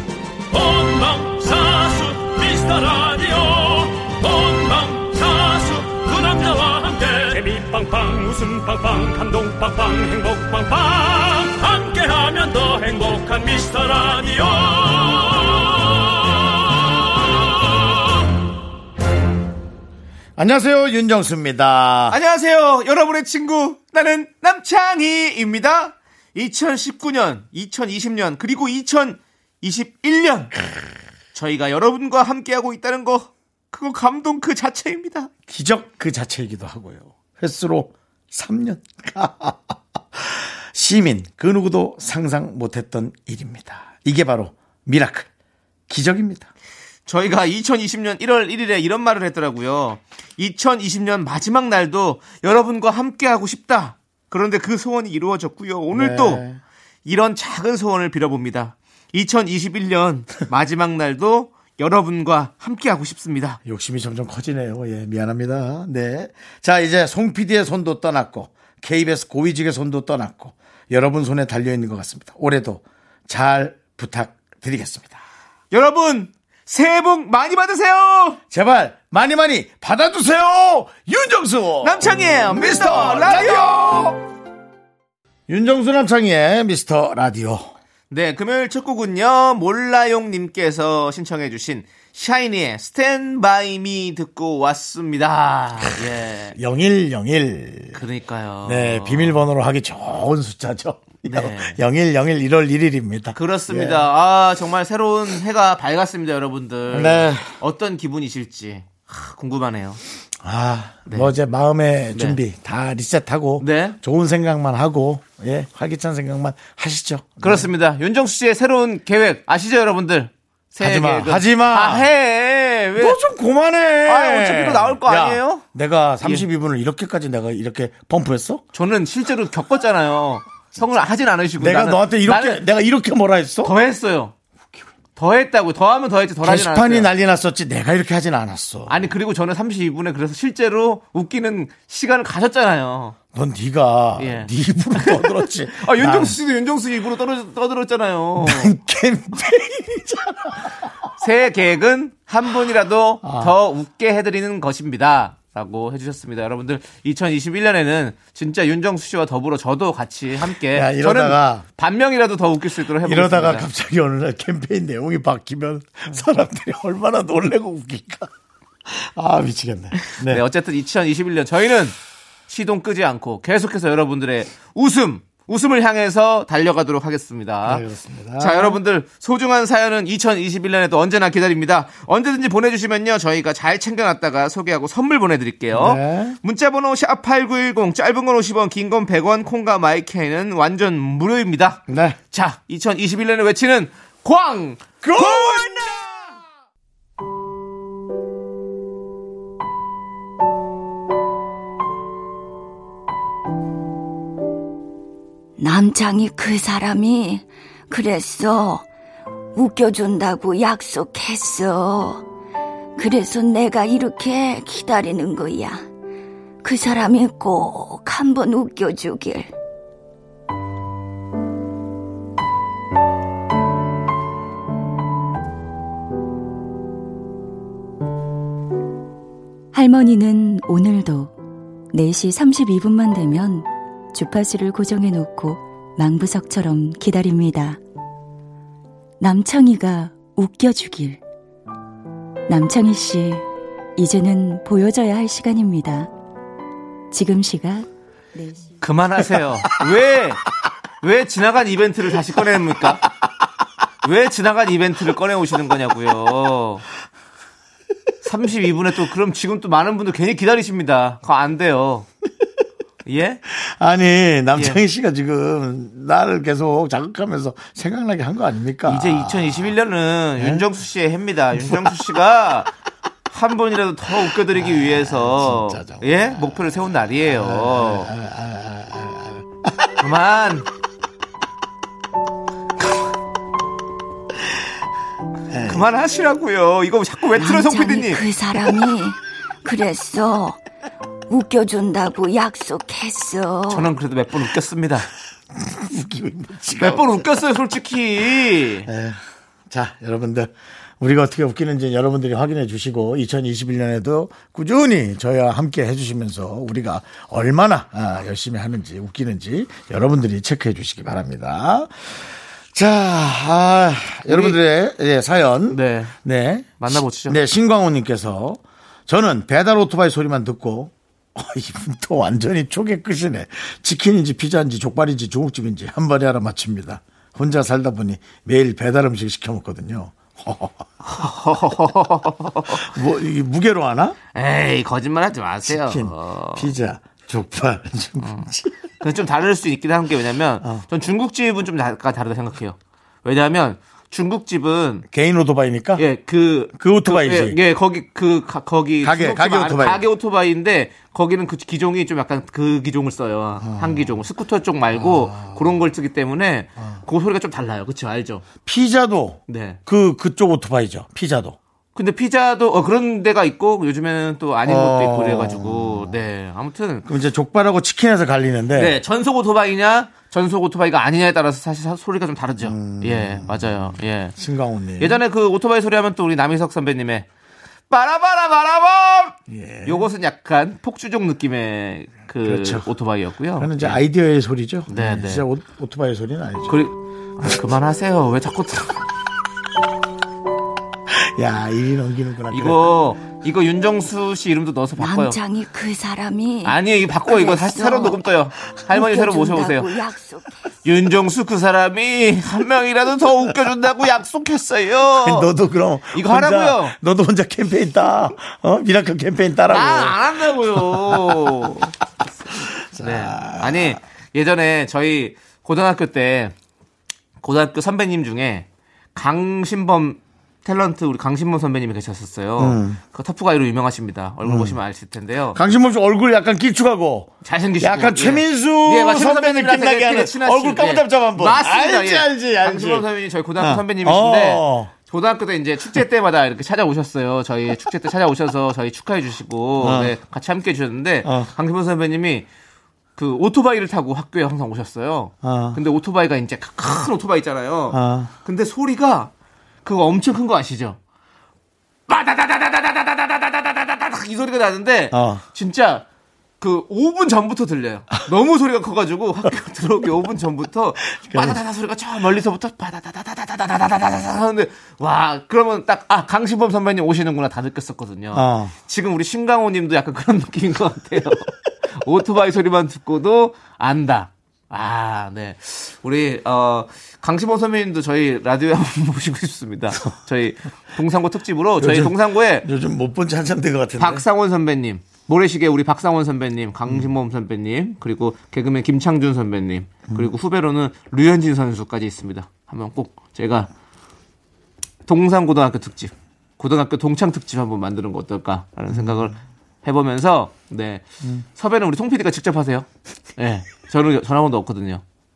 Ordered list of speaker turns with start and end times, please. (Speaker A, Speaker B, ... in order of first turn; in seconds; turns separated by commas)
Speaker A: 0.5-17.9, Speaker B: 20.4-22.2, Speaker C: 22.1-30.5, Speaker C: 31.3-35.3, Speaker B: 35.5-45.3, Speaker B: 45.9-46.5, Speaker C: 47.0-56.4, Speaker B: 55.9-56.6, Speaker C: 57.0-63.6, Speaker B: 63.6-75.2, Speaker C: 75.7-78.4, Speaker B: 78.5-84.2, Speaker C: 81.8-84.0, Speaker B: 85.5-87.7, Speaker C: 88.1-96.6, Speaker B: 96.5-98.0, Speaker C: 97.9-99.4, Speaker B: 98.6-104.0, Speaker C: 101.2-101.8, Speaker C: 103.3-110.0, Speaker B: 106.9-107.5, Speaker B: 110.4-117.7, Speaker C: 112.1-112.4, Speaker C: 113.6-114.0, Speaker C: 117.4-123.2, Speaker B: 120.8-122.1, Speaker B: 123.0-128.6, Speaker C: 124.0-125.6, Speaker C: 128.7-132.6, Speaker B: 131.6-133.7, Speaker C: 133.6-134.3, Speaker C: 135.2-137.1, Speaker B: 136.4-139.0, Speaker C: 138.9-143.2, Speaker B: 143.3-146.4, Speaker C: 144.2-148.7, Speaker B: 148.4-150.9, Speaker C: 151.2-163.7, Speaker B: 153.2-153.5, Speaker B: 160.7-161.6, Speaker B: 162.9-168.3, Speaker B: 168.8-170.4, Speaker C: 170.2-177.8, Speaker B: 177.6-178.8, Speaker C: 178.4-195.7, Speaker B: 185.7-186.4, Speaker B: 191.9-192.2, Speaker B: 195.0-196.4, Speaker D: 205.6-208.8, Speaker D: 209.5-212.2, Speaker D: 213.0-215.8, Speaker D: 216.6-219.5, Speaker E: 229.7-231.3, Speaker E: 231.9-237.8, Speaker E: 239.2-241.2, Speaker E: 242.5-243.4, Speaker E: 244.0-246.1, Speaker E: 247.1-248.7, Speaker C: 248.8-250.4, Speaker C: 251.0-253.1, Speaker C: 254.0-256.8, Speaker C: 258.2-262.1, Speaker C: 263.1-263.4, Speaker B: 263.5-269.7, Speaker C: 264.5-264.8, Speaker C: 268.9-272.7, Speaker B: 270.4-270.7, Speaker B: 271.6-272.0, Speaker C: 273.3-278.1, Speaker B: 274.2-276.7, Speaker B: 277.2-280.0, Speaker C: 280.0-280.7, Speaker B: 285.5-285.8, Speaker C: 285.6-288.2, Speaker D: 287.3-290.6, Speaker D: 291.3-293.9, Speaker C: 293.7-295.1, Speaker B: 295.5-297.4, Speaker C: 296.8-298.9, Speaker B: 298.9-330.9, Speaker C: 314.3-314.6, Speaker C: 315.7-316.1, Speaker C: 316.8-317.4, Speaker C: 331.0-332.8, Speaker B: 332.7-334.2, Speaker C: 334.3-336.7, Speaker B: 335.7-338.8, Speaker C: 338.2-338.5, Speaker C: 339.0-345.0, Speaker B: 345.1-346.0, Speaker C: 346.0-358.4, Speaker B: 346.7-347.6, Speaker B: 349.0-350.0, Speaker B: 353.6-354.2, Speaker B: 354.9-355.6, Speaker B: 358.6-361.6, Speaker C: 359.5-359.8, Speaker C: 361.9-367.1, Speaker B: 364.6-366.1, Speaker B: 367.0-369.0, Speaker C: 368.7-374.4, Speaker B: 372.6-373.8, Speaker B: 374.4-375.2, Speaker C: 375.0-377.3, Speaker C: 377.9-384.0, Speaker B: 379.5-380.1, Speaker B: 382.4-382.9, Speaker B: 383.6-386.8, Speaker C: 384.9-385.4, Speaker C: 386.7-389.0, Speaker B: 391.1-392.9, Speaker C: 392.5-395.4, Speaker D: 395.0-398.3, Speaker C: 396.6-399.9, Speaker D: 398.9-400.6, Speaker C: 400.8-405.5, Speaker B: 405.1-411.7, Speaker C: 406.1-406.9, Speaker C: 409.7-411.9, Speaker B: 412.6-414.0, Speaker C: 413.0-416.5, Speaker C: 417.4-425.6, Speaker B: 422.6-423.0, Speaker B: 424.4-424.8, Speaker B: 425.5-433.1, Speaker C: 427.4-442.5, Speaker B: 433.6-434.9, Speaker B: 439.8-440.1, Speaker B: 441.2-441.5, Speaker C: 443.1-449.3, Speaker B: 445.4-445.8, Speaker B: 447.9-448.3, Speaker C: 449.8-451.0, Speaker C: 452.1-456.0, Speaker B: 455.1-455.4, Speaker C: 456.6-482.7, Speaker B: 461.1-461.6, Speaker B: 468.3-468.7, Speaker B: 481.8-484.2, Speaker C: 484.0-493.7, Speaker C: 495.1-505.0, Speaker B: 498.9-499.3